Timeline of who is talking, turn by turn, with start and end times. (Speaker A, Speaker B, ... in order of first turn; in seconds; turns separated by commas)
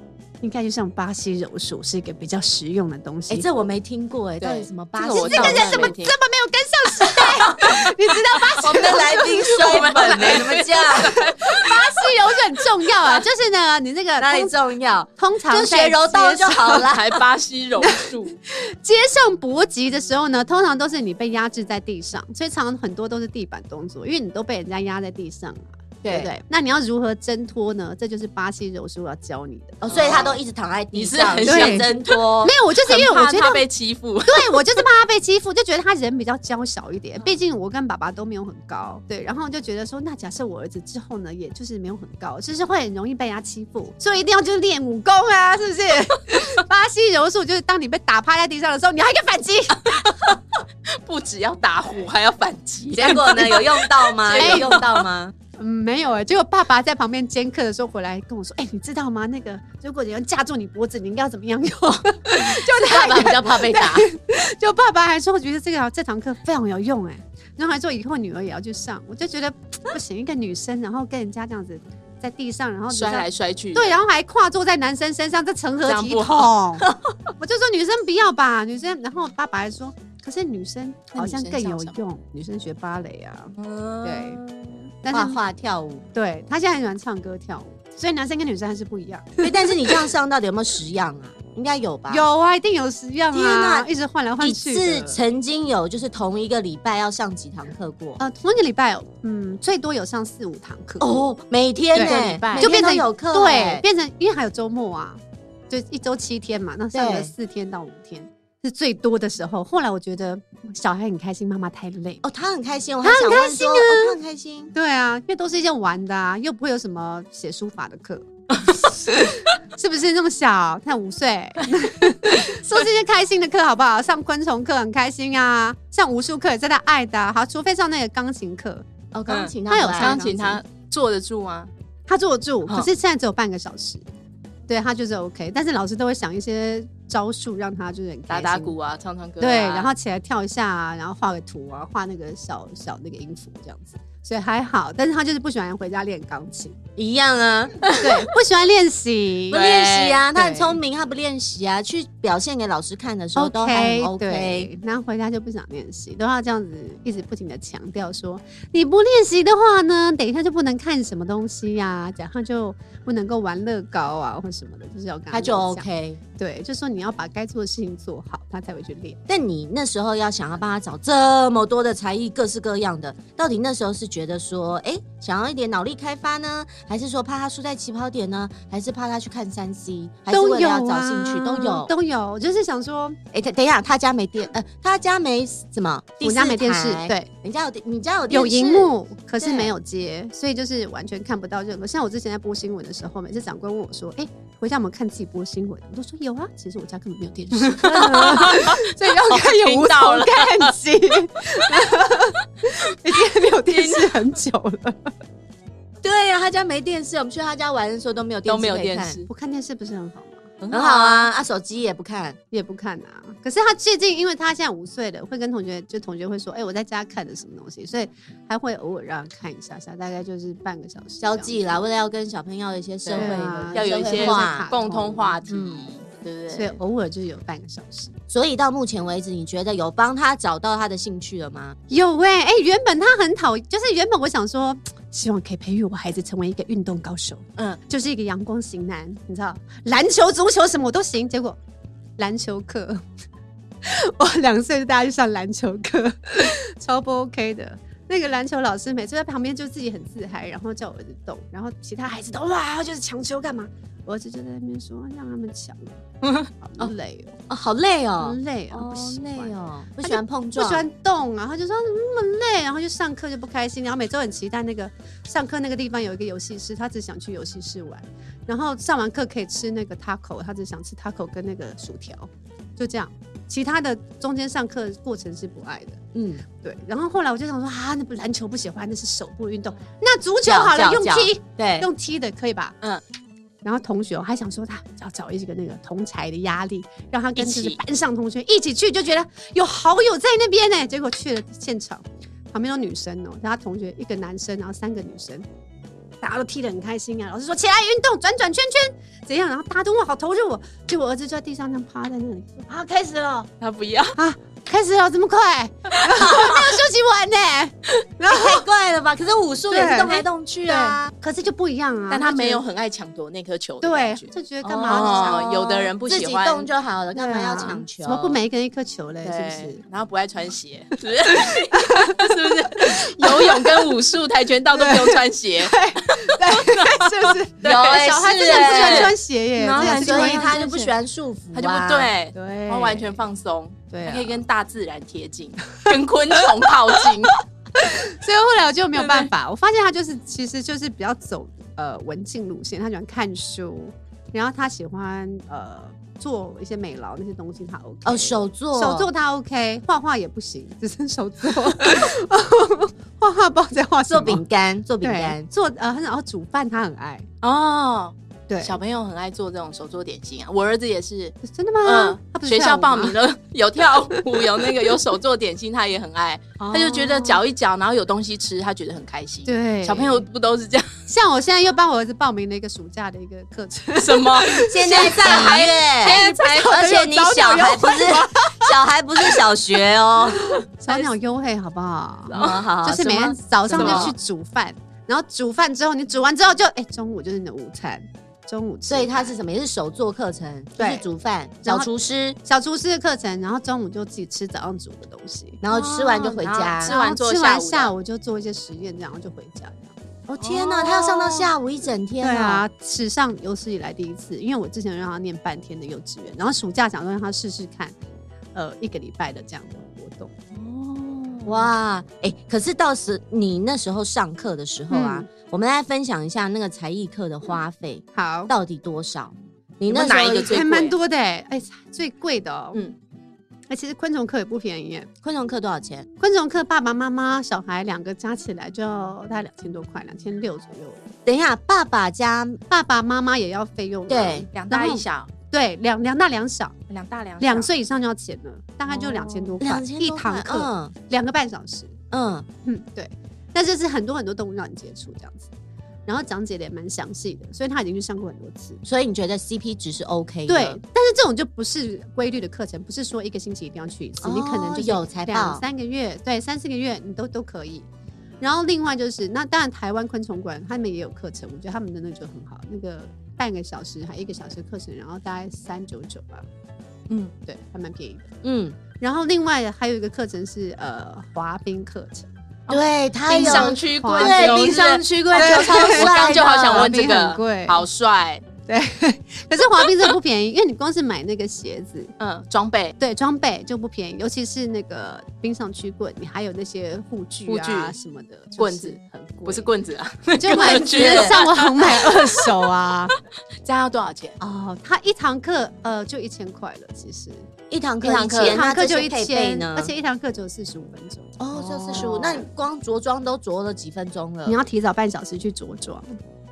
Speaker A: 0.4-3.5, Speaker B: 3.3-5.9, Speaker C: 4.4-6.1, Speaker A: 5.1-14.6, Speaker B: 8.6-11.2, Speaker C: 8.7-11.8, Speaker B: 14.2-17.2, Speaker A: 15.2-16.9, Speaker C: 16.8-18.4, Speaker A: 17.8-30.4, Speaker B: 26.0-26.3, Speaker B: 29.8-32.5, Speaker C: 29.9-30.4, Speaker C: 30.9-32.2, Speaker A: 31.4-33.6, Speaker C: 32.8-34.6, Speaker A: 34.2-50.1, Speaker C: 50.0-50.4, Speaker C: 51.0-55.1, Speaker B: 52.9-55.3, Speaker A: 54.4-54.8, Speaker A: 55.6-76.8, Speaker B: 62.4-64.1, Speaker C: 72.9-74.0, Speaker C: 75.8-76.8, Speaker A: 77.4-84.4, Speaker C: 81.2-82.0, Speaker C: 83.6-84.8, Speaker A: 85.0-85.4, Speaker B: 85.1-86.0, Speaker A: 86.1-90.0, Speaker B: 89.4-92.2, Speaker A: 92.1-95.2, Speaker B: 93.3-98.2, Speaker A: 98.2-101.3, Speaker B: 101.0-103.8, Speaker A: 101.9-112.2, Speaker C: 102.0-102.7, Speaker B: 106.9-107.3, Speaker B: 112.2-114.7, Speaker A: 113.0-114.2, Speaker A: 114.7-128.9, Speaker B: 129.1-130.2, Speaker C: 129.3-131.7, Speaker A: 129.7-130.6, Speaker A: 132.1-134.0, Speaker A: 134.7-138.8, Speaker C: 138.3-139.9, Speaker A: 139.4-146.8, Speaker B: 147.0-147.8, Speaker A: 148.0-149.6, Speaker C: 149.5-150.2, Speaker B: 149.5-154.7, Speaker A: 150.3-150.8, Speaker A: 153.3-165.8, Speaker B: 165.3-166.2, Speaker A: 166.4-169.2, Speaker B: 169.3-181.9, Speaker A: 180.3-183.2, Speaker B: 183.3-189.7, Speaker A: 186.2-187.3, Speaker A: 188.3-205.1, Speaker C: 197.7-200.8, Speaker C: 203.7-204.2, Speaker B: 206.0-209.2, Speaker C: 208.5-209.3, Speaker A: 209.3-210.6, Speaker C: 210.6-211.3, Speaker B: 210.7-212.4, Speaker A: 212.5-221.8, Speaker B: 221.2-224.7, Speaker C: 223.0-226.8, Speaker A: 223.2-225.9, Speaker A: 226.5-228.1, Speaker B: 228.3-231.8, Speaker A: 231.9-241.6, Speaker A: 242.2-243.0, Speaker A: 243.8-257.4, Speaker B: 257.5-260.9, Speaker A: 258.2-276.0, Speaker B: 276.1-276.4, Speaker A: 276.6-282.8, Speaker B: 280.4-281.9, Speaker A: 283.6-295.5, Speaker C: 287.4-287.8, Speaker A: 296.2-303.5, Speaker C: 303.6-304.1, Speaker A: 304.1-308.6, Speaker B: 308.3-311.1, Speaker A: 309.7-312.6, Speaker C: 312.1-314.3, Speaker A: 313.8-315.5, Speaker B: 314.6-318.4, Speaker C: 314.9-316.7, Speaker A: 317.1-319.8, Speaker C: 319.2-330.9, Speaker A: 321.3-323.9, Speaker A: 324.7-330.6, Speaker B: 327.6-329.1, Speaker B: 329.8-332.1, Speaker C: 331.5-337.4, Speaker A: 332.3-333.2, Speaker A: 333.9-334.4, Speaker A: 336.4-336.7, Speaker A: 337.8-354.4, Speaker C: 339.0-339.3, Speaker B: 348.0-349.1, Speaker B: 354.1-355.5, Speaker A: 355.0-357.3, Speaker C: 357.4-370.9, Speaker A: 358.5-358.8, Speaker A: 361.4-363.1, Speaker A: 366.6-367.4, Speaker A: 369.5-370.2, Speaker A: 371.1-379.4, Speaker C: 374.0-376.9, Speaker B: 374.7-380.5, Speaker A: 380.4-389.3, Speaker C: 382.3-382.7, Speaker B: 382.3-384.1, Speaker C: 383.7-384.1, Speaker B: 388.9-392.4, Speaker A: 390.8-391.1, Speaker A: 391.6-391.9, Speaker A: 392.4-395.6, Speaker B: 395.6-396.9, Speaker C: 395.7-397.9, Speaker A: 396.8-400.0, Speaker B: 400.3-402.6, Speaker C: 400.4-401.5, Speaker A: 402.2-407.9, Speaker A: 408.5-410.3, Speaker C: 410.5-411.7, Speaker B: 411.5-420.6, Speaker A: 414.9-415.3, Speaker A: 418.1-418.5, Speaker C: 419.9-420.9, Speaker A: 420.4-422.8, Speaker A: 423.7-425.1, Speaker B: 425.2-426.1, Speaker A: 426.2-431.0, Speaker B: 431.2-432.6, Speaker A: 432.7-436.8, Speaker B: 434.1-434.5, Speaker C: 434.5-435.3, Speaker C: 436.9-437.7, Speaker A: 437.4-442.0, Speaker B: 438.9-440.9, Speaker B: 442.1-442.5, Speaker A: 442.6-445.5, Speaker A: 446.1-448.8, Speaker B: 448.8-450.8, Speaker A: 450.5-457.9, Speaker B: 454.2-455.6, Speaker A: 458.4-466.4, Speaker A: 467.4-468.3, Speaker B: 468.4-468.8, Speaker A: 469.0-472.3, Speaker C: 472.7-478.4, Speaker B: 472.7-477.0, Speaker A: 473.3-474.8, Speaker A: 475.3-477.8, Speaker A: 478.7-482.1, Speaker C: 482.2-482.9, Speaker A: 483.0-489.7, Speaker C: 487.5-487.9, Speaker C: 488.6-492.4, Speaker A: 490.4-493.1, Speaker B: 490.5-491.4, Speaker C: 493.6-494.4, Speaker A: 494.4-497.5, Speaker B: 497.7-499.9, Speaker C: 498.0-498.6, Speaker A: 498.4-502.5, Speaker B: 501.4-504.6, Speaker A: 504.5-506.2